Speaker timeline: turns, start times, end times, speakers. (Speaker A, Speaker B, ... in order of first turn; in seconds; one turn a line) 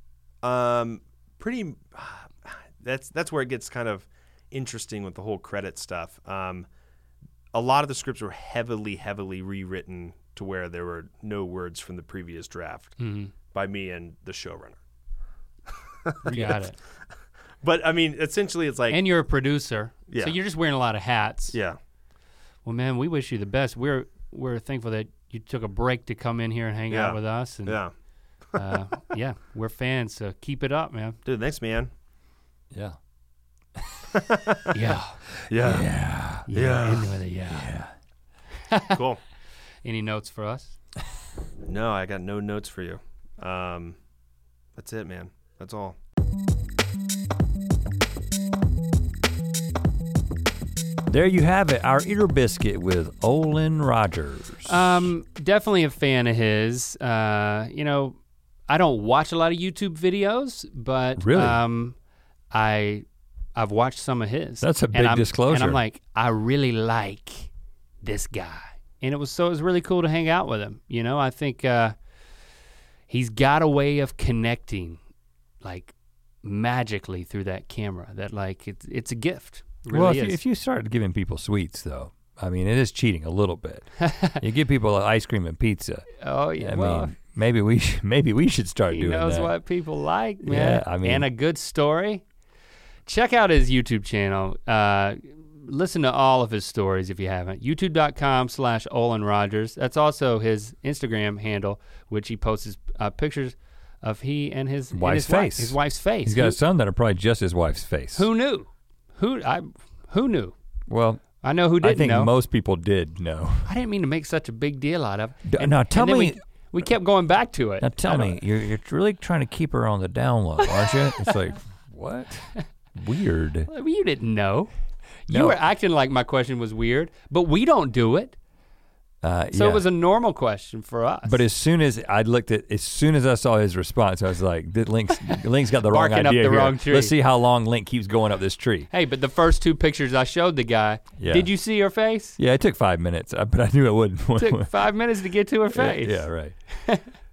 Speaker A: 0.4-6.7
Speaker A: 7.5-13.0
Speaker B: 13.0-13.3
Speaker A: 13.5-14.8
Speaker A: 16.0-16.7
Speaker B: 16.2-16.8
Speaker A: 17.6-19.0
Speaker B: 18.9-21.6
Speaker A: 20.1-20.4
Speaker B: 22.6-27.8
Speaker A: 26.9-27.9
Speaker B: 28.5-31.2
Speaker A: 31.2-31.9
Speaker C: 32.7-33.0
Speaker A: 34.1-34.7
Speaker B: 34.7-35.2
Speaker C: 35.4-36.5
Speaker A: 35.5-35.9
Speaker B: 36.5-37.7
Speaker A: 36.5-37.1
Speaker C: 37.5-37.9
Speaker B: 38.7-39.0
Speaker A: 38.9-39.2
Speaker B: 39.8-40.8
Speaker A: 41.6-44.0
Speaker A: 44.8-46.0
Speaker C: 51.1-55.1
Speaker B: 54.6-62.0
Speaker C: 61.2-61.6
Speaker B: 62.5-67.5
Speaker C: 64.6-65.8
Speaker B: 68.0-72.0
Speaker B: 73.1-75.0
Speaker B: 75.6-80.4
Speaker C: 79.9-89.5
Speaker B: 84.0-84.4
Speaker B: 86.2-87.1
Speaker B: 88.9-92.2
Speaker C: 90.4-91.3
Speaker B: 93.0-106.6
Speaker C: 104.9-108.3
Speaker B: 108.1-110.5
Speaker C: 110.9-111.3
Speaker B: 111.4-112.3
Speaker C: 111.8-113.7
Speaker B: 113.6-118.4
Speaker C: 115.4-116.4
Speaker C: 117.8-123.7
Speaker B: 120.7-121.3
Speaker B: 123.7-124.7
Speaker B: 125.2-128.3
Speaker C: 125.3-125.6
Speaker C: 129.2-129.8
Speaker B: 129.5-131.4
Speaker C: 131.2-138.9
Speaker B: 135.7-137.1
Speaker B: 138.9-142.4
Speaker C: 141.2-141.5
Speaker C: 142.4-144.7
Speaker B: 144.4-147.1
Speaker C: 145.7-146.6